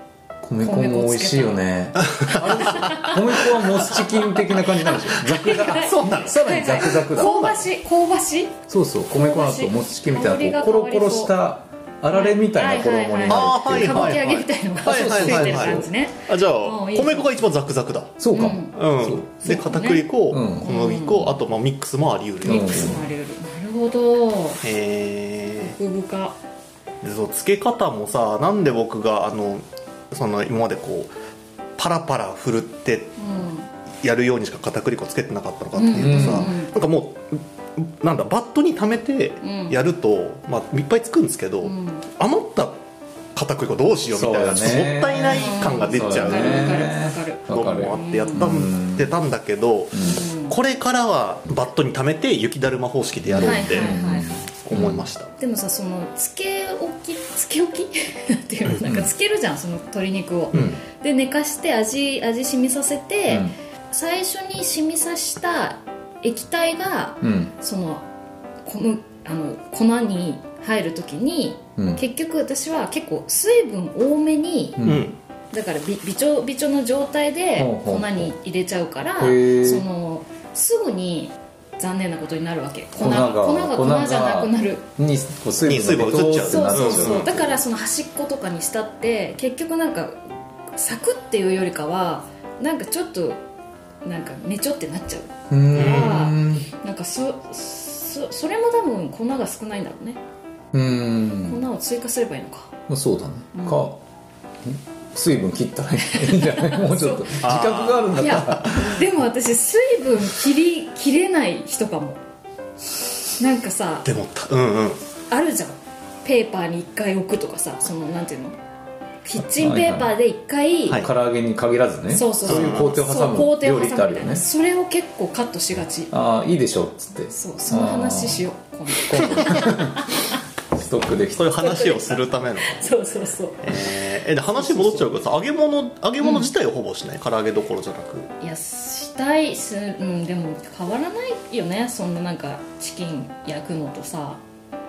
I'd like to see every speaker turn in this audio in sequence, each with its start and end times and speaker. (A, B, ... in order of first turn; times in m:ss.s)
0:00.4-0:07.5 A
0:00.6-0:01.6 B
0:02.0-0:04.3 C
0:02.3-0:03.2 B
0:03.9-0:08.6 B
0:05.3-0:07.7 C
0:08.7-0:15.9 A
0:09.1-0:11.4 B
0:12.1-0:17.3 B
0:13.3-0:18.2 C
0:18.2-0:19.6 A
0:18.3-0:18.8 B
0:18.7-0:23.1 C
0:19.4-0:21.4 B
0:20.3-0:20.7 A
0:22.4-0:24.6 B
0:22.4-0:23.0 A
0:24.6-0:25.8 C
0:25.6-0:26.4 B
0:27.0-0:31.1 C
0:31.8-0:33.2 C
0:33.2-0:33.7 B
0:34.0-0:42.8 C
0:35.8-0:36.8 B
0:36.0-0:36.5 A
0:39.4-0:39.8 B
0:41.6-0:42.1 B
0:43.4-0:46.9 C
0:44.1-0:49.1 A
0:45.2-0:48.5 B
0:47.5-0:54.0 C
0:49.9-0:50.3 A
0:50.0-0:50.6 B
0:53.2-0:55.1 A
0:53.4-0:54.3 B
0:54.6-0:55.3 C
0:55.4-1:08.1 B
0:58.6-0:59.1 C
1:00.5-1:00.8 A
1:03.3-1:03.6 A
1:07.2-1:07.5 A
1:08.6-1:14.8 B
1:11.8-1:12.0 A
1:14.8-1:15.1 A
1:14.8-1:15.2 C
1:15.5-1:24.9 B
1:17.6-1:18.3 A
1:19.2-1:19.9 A
1:23.0-1:27.6 A
1:25.6-1:27.4 C
1:26.4-1:30.2 B
1:30.8-1:33.4 B
1:34.0-1:40.2 B
1:35.5-1:36.7 A
1:35.8-1:36.3 C
1:40.7-1:41.6 A
1:41.4-1:42.7 B
1:42.9-1:44.0 A
1:43.5-1:43.9 B
1:44.6-1:48.9 A
1:46.0-1:47.4 B
1:47.4-1:49.0 C
1:48.2-1:52.2 B
1:53.4-1:54.1 B
1:54.0-1:55.0 C
1:55.3-1:58.6 B
1:59.2-2:01.1 B
1:59.4-2:00.2 A
2:00.9-2:04.4 A
2:02.1-2:06.1 B
2:02.4-2:03.1 C
2:06.1-2:08.5 A
2:07.3-2:10.4 B
2:09.1-2:10.1 A
2:10.7-2:11.6 A
2:11.3-2:13.0 C
2:11.6-2:14.0 B
2:13.6-2:18.3 C
2:14.5-2:15.1 A
2:16.2-2:16.5 B
2:18.4-2:24.4 B